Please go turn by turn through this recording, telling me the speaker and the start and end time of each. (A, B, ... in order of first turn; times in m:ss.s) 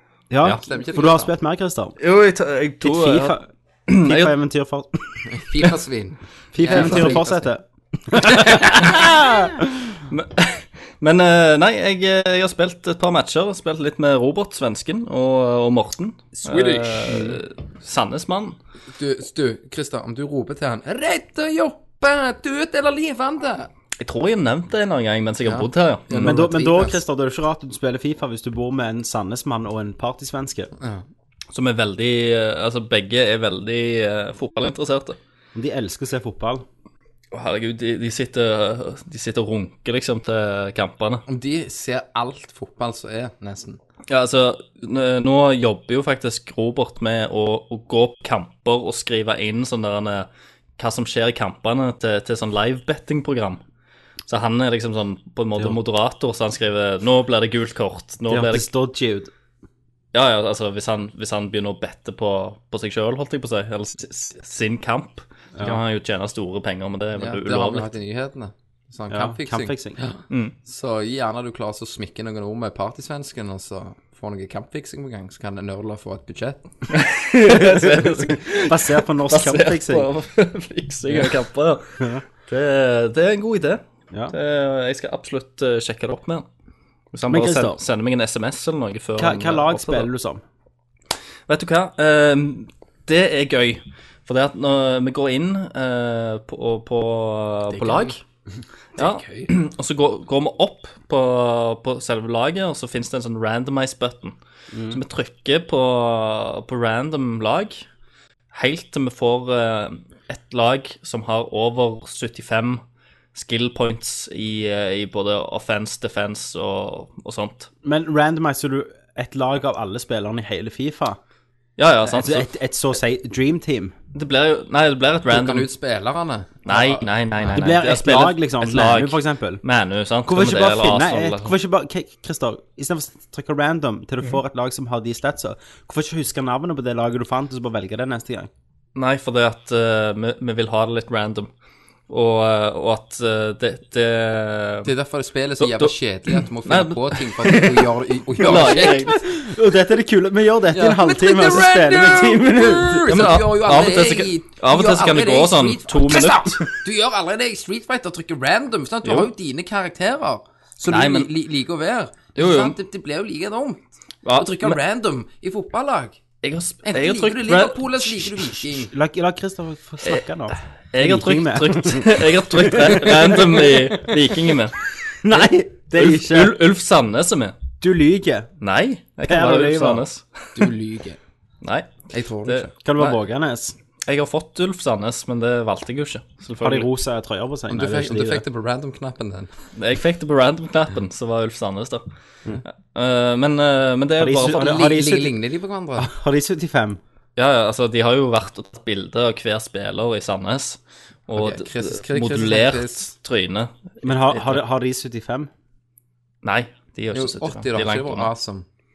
0:00.3-0:02.0 A
0:00.5-0:01.3 B
0:02.0-0:03.4 C
0:02.8-0:05.2 A
0:03.9-0:04.4 C
0:05.3-0:07.5 B
0:06.5-0:09.9 A
0:06.7-0:07.2 C
0:08.6-0:08.9 C
0:10.1-0:18.6 C
0:16.4-0:17.4 B
0:19.0-0:23.7 B
0:24.0-0:26.4 C
0:25.4-0:27.0 B
0:26.2-0:30.7 A
0:30.8-0:31.0 B
0:31.5-0:35.2 C
0:35.6-0:36.6 A
0:37.3-0:41.2 C
0:41.3-0:43.8 B
0:44.1-0:53.6 C
0:54.3-0:58.7 C
0:58.3-0:59.3 A
1:00.1-1:07.9 C
1:07.2-1:16.6 B
1:09.1-1:10.0 A
1:10.3-1:10.6 C
1:16.9-1:26.5 C
1:17.3-1:20.1 A
1:27.1-1:30.1 C
1:27.3-1:27.8 A
1:29.2-1:30.4 A
1:31.5-1:38.2 C
1:39.0-1:44.4 C
1:44.7-1:45.0 A
1:44.9-1:47.8 C
1:48.5-1:52.8 C
1:53.3-1:57.7 C
1:57.8-2:01.2 A
2:01.8-2:02.5 C
2:02.0-2:04.0 A
2:04.1-2:05.7 C
2:05.3-2:07.0 B
2:06.6-2:11.5 C
2:07.5-2:09.6 A
2:10.2-2:18.5 A
2:19.0-2:21.5 C
2:22.1-2:24.9 C
2:24.8-2:29.2 B
2:25.6-2:26.0 C
2:26.6-2:27.6 C
2:28.4-2:29.2 C
2:28.5-2:33.4 A
2:30.7-2:46.2 B
2:33.1-2:36.6 C
2:39.0-2:39.3 C
2:40.9-2:41.3 C
2:42.4-2:42.8 C
2:44.2-2:44.8 C
2:46.4-2:48.4 C
2:46.8-2:48.9 B
2:48.7-2:54.1 A
2:50.9-2:57.6 C
2:55.2-2:56.6 A
2:57.8-2:58.5 A
2:58.6-3:00.7 C
2:59.2-3:00.1 A
3:00.6-3:01.2 B
3:01.6-3:03.2 C
3:02.1-3:02.7 B
3:02.8-3:03.8 A
3:04.1-3:06.9 C
3:06.6-3:08.4 A
3:07.7-3:09.5 B
3:09.8-3:12.0 C
3:12.7-3:14.8 C
3:14.2-3:15.4 A
3:14.4-3:16.1 B
3:16.0-3:17.0 A
3:17.4-3:24.6 C
3:21.3-3:23.1 B
3:24.0-3:25.5 A
3:26.4-3:28.3 C
3:27.1-3:28.6 B